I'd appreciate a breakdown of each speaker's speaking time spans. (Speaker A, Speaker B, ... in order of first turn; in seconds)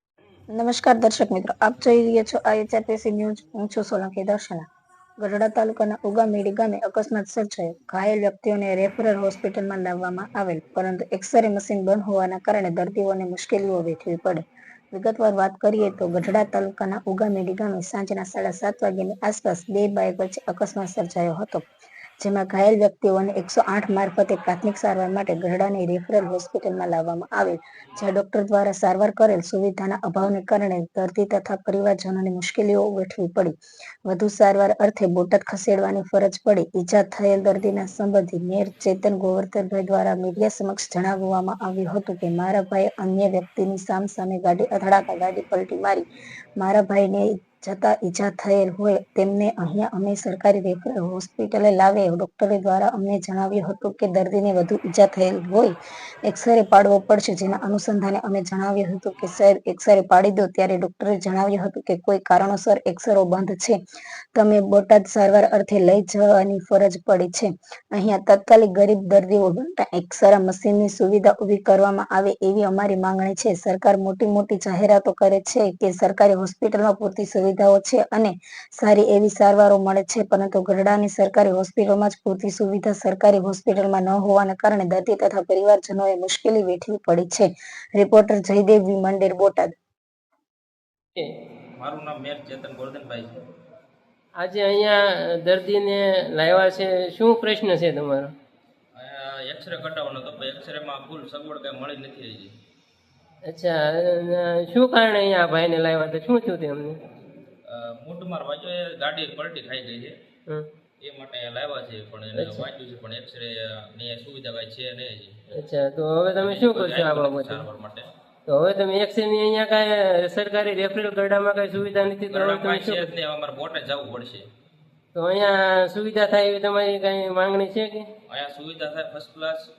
Speaker A: 0.5-4.7, 5.2-21.6, 22.2-46.0, 46.6-63.8, 64.3-89.8
Speaker B: 91.8-93.4, 99.0-102.5, 107.7-110.1, 111.0-115.3, 116.4-118.1, 122.3-124.4, 128.3-129.7
Speaker C: 94.4-98.3, 103.5-107.0, 112.3-112.7, 115.5-117.7, 118.5-123.1, 125.1-128.1